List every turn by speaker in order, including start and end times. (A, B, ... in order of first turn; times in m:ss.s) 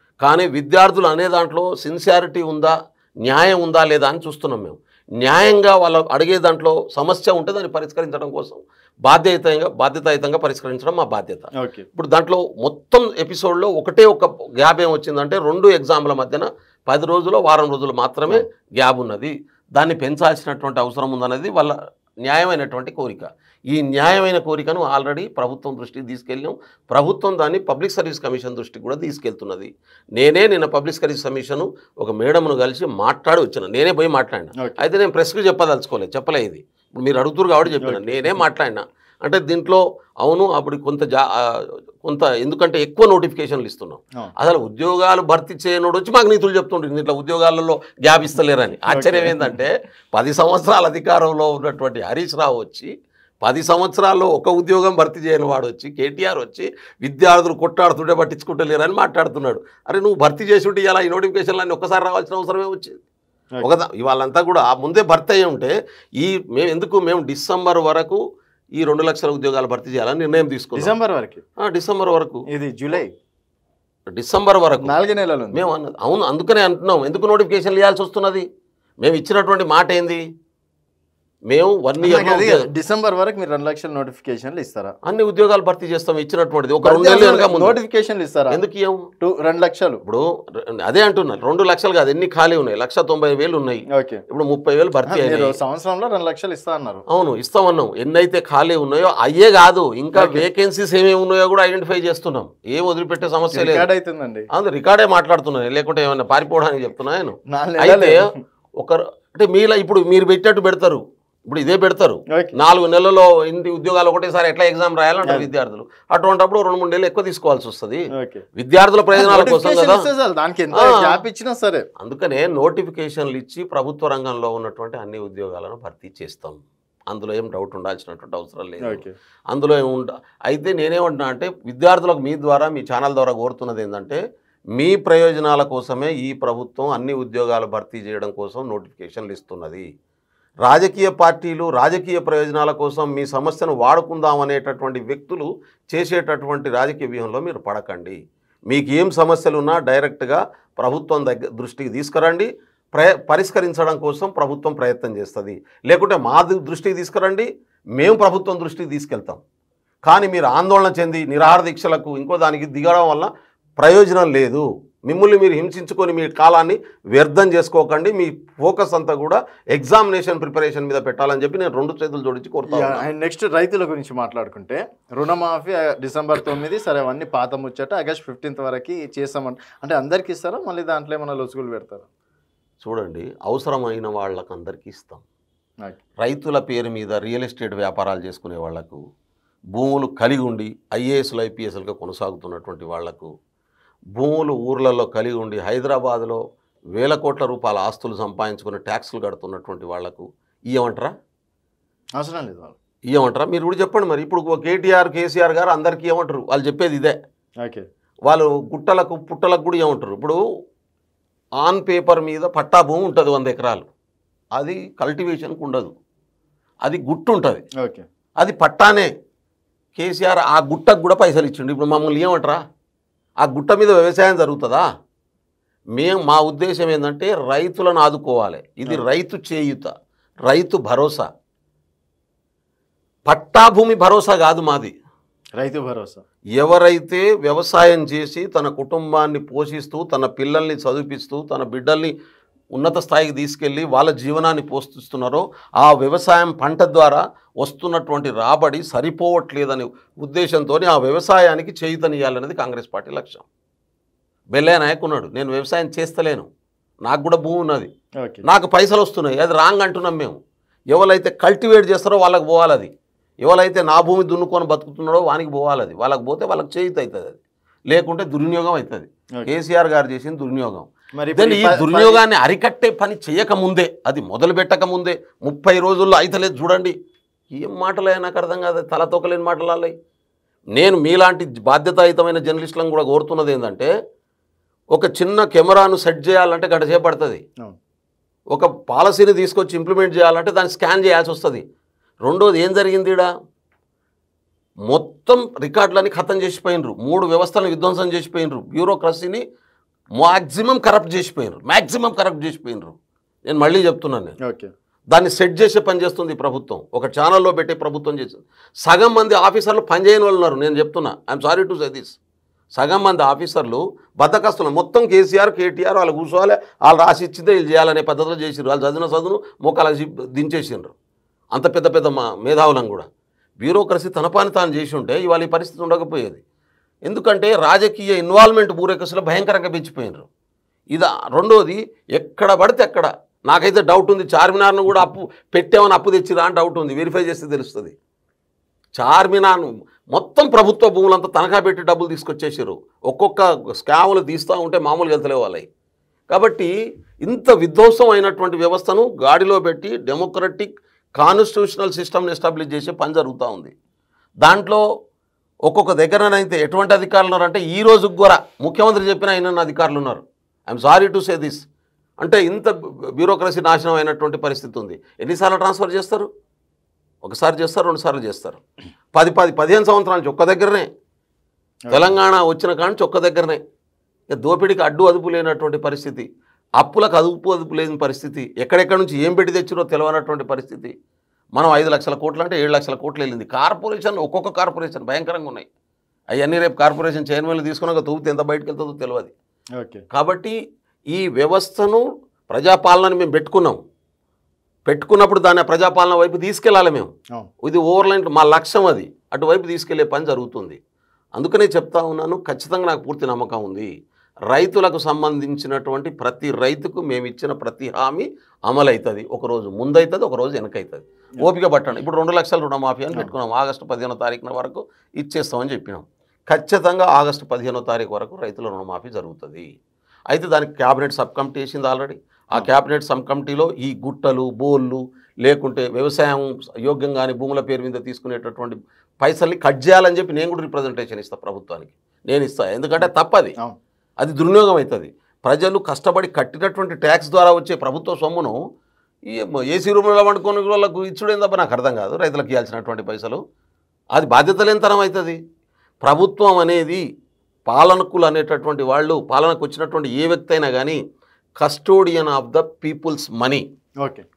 0:00.2-0:52.9 A
0:11.6-0:11.9 B
0:34.6-0:34.8 B
0:37.8-0:38.4 B
0:48.9-0:49.6 B
0:53.4-1:03.0 A
1:03.6-1:08.2 A
1:08.8-1:10.9 A
1:10.8-1:11.4 B
1:11.6-1:12.4 A
1:12.5-1:13.1 B
1:14.1-1:14.9 A
1:14.8-1:15.6 B
1:15.5-1:18.5 A
1:19.0-1:20.2 A
1:21.5-1:22.7 A
1:22.0-1:24.9 B
1:25.0-1:27.8 A
1:26.8-1:28.6 B
1:28.5-1:29.1 A
1:29.2-1:30.0 B
1:30.0-1:35.6 A
1:33.9-1:34.2 B
1:35.1-1:37.0 B
1:37.1-1:43.9 A
1:40.1-1:40.4 B
1:43.5-1:44.5 B
1:44.5-2:00.1 A
1:47.5-1:48.4 B
1:58.1-1:58.4 B
1:59.1-2:01.8 B
2:00.7-2:01.2 A
2:02.0-2:14.2 A
2:08.8-2:09.1 B
2:14.8-2:19.8 A
2:20.6-2:28.2 A
2:28.7-2:39.4 A
2:40.1-2:53.0 A
2:52.7-3:02.1 B
3:02.8-3:05.2 A
3:06.2-3:09.0 A
3:09.7-3:13.3 A
3:14.1-3:16.4 A
3:16.9-3:21.1 A
3:22.2-3:22.8 B
3:23.1-3:27.2 A
3:28.3-3:30.4 A
3:31.6-3:33.9 A
3:34.5-3:35.9 A
3:36.8-3:37.6 A
3:37.8-3:38.0 B
3:38.4-3:39.1 A
3:40.0-3:42.6 A
3:43.4-3:44.8 A
3:46.0-3:49.9 A
3:50.5-3:51.3 A
3:53.3-3:54.9 A
3:55.6-3:56.2 B
3:56.6-4:02.1 A
4:02.8-4:13.4 A
4:14.5-4:16.5 A
4:17.0-4:17.9 A
4:18.4-4:20.4 A
4:20.9-4:22.9 A
4:23.4-4:27.4 A
4:27.9-4:36.9 A
4:31.2-4:32.2 B
4:37.5-4:39.9 A
4:40.7-4:43.9 A
4:44.9-4:47.4 A
4:48.5-4:51.6 A
4:52.2-4:53.3 A
4:54.9-4:59.4 A
5:00.2-5:02.9 A
5:03.4-5:04.4 A
5:04.4-5:04.7 B
5:05.1-5:12.2 A
5:12.8-5:20.9 A
5:21.5-5:23.1 A
5:23.6-5:26.4 A
5:27.1-5:30.3 A
5:30.9-5:38.0 A
5:39.0-5:45.6 A
5:46.3-5:46.7 A
5:47.2-5:53.7 A
5:54.4-5:54.8 A
5:55.7-6:01.6 A
6:02.2-6:06.3 A
6:07.2-6:08.6 A
6:09.1-6:10.9 A
6:11.9-6:12.1 B
6:11.9-6:13.6 A
6:14.3-6:16.3 A
6:16.8-6:20.9 A
6:21.6-6:25.7 A
6:26.3-6:29.3 A
6:29.8-6:30.0 B
6:30.1-6:30.6 A
6:31.1-6:33.8 A
6:34.9-6:37.1 A
6:37.6-6:40.8 A
6:41.4-6:43.9 A
6:44.5-6:59.7 A
7:00.3-7:13.5 A
7:14.2-7:18.6 A
7:19.3-7:23.4 A
7:24.1-7:25.4 A
7:26.0-7:27.0 A
7:27.7-7:31.0 A
7:31.6-7:33.6 A